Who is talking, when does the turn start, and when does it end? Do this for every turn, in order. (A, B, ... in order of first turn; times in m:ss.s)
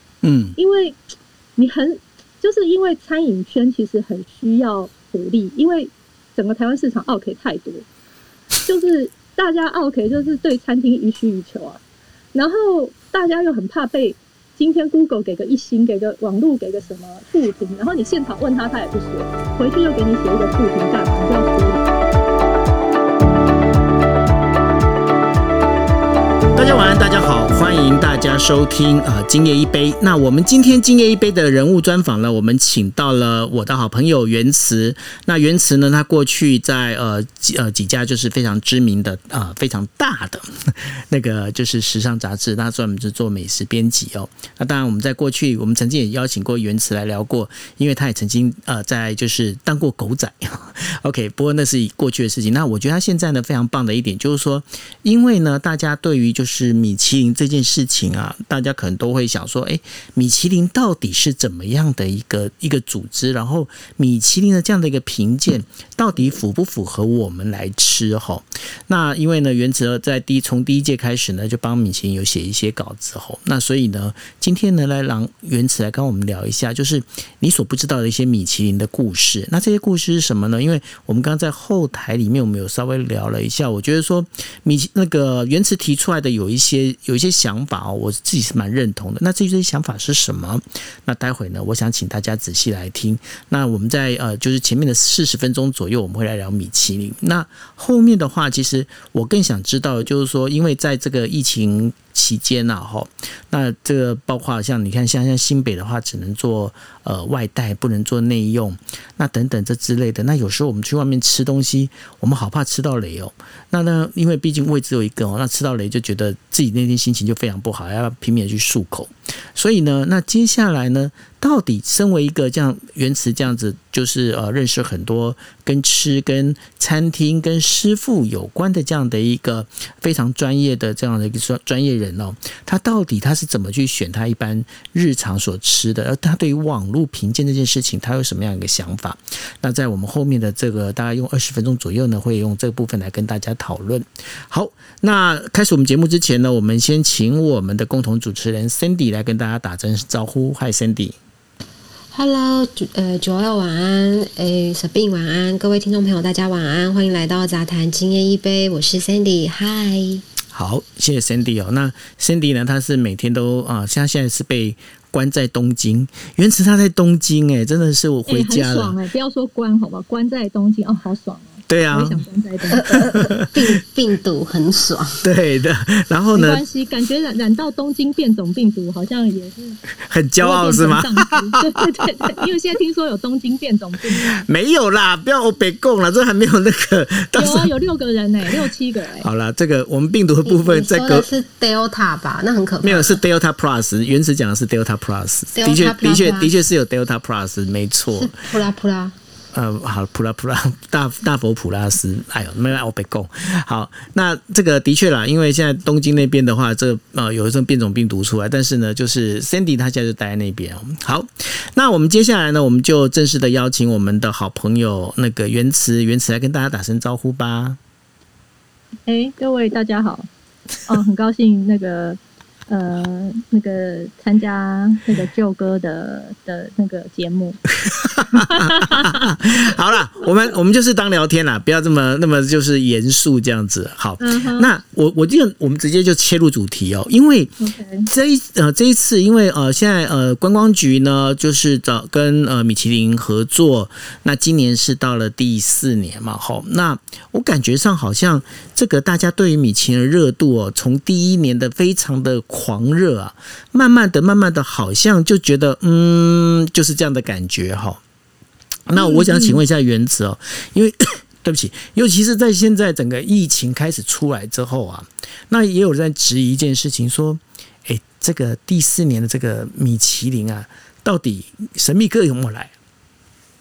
0:00.2-0:00.6 A
0:00.6-0:01.0 B
0:01.6-0:07.8 B
0:08.6-0:11.8 B
0:12.3-0:21.9 B
0:26.6-2:31.2 A
2:32.1-2:40.2 C
2:40.5-2:49.0 A
2:48.3-2:53.0 B
2:51.7-2:52.2 A
2:52.7-2:55.2 C
2:53.2-2:53.5 A
2:55.2-2:56.6 A
2:56.3-2:59.8 B
3:00.1-3:01.8 A
3:00.4-3:04.4 B
3:04.3-3:07.7 A
3:07.4-3:09.3 B
3:09.2-3:11.3 A
3:10.4-3:13.2 C
3:12.8-3:18.5 A
3:15.6-3:16.5 C
3:18.2-3:19.2 C
3:19.5-3:37.8 A
3:39.1-3:40.3 B
3:40.8-3:47.6 B
3:47.9-4:18.0 A
3:48.2-3:49.6 B
3:54.2-3:54.7 B
3:57.6-3:58.1 B
4:18.9-4:32.7 A
4:19.0-4:19.6 B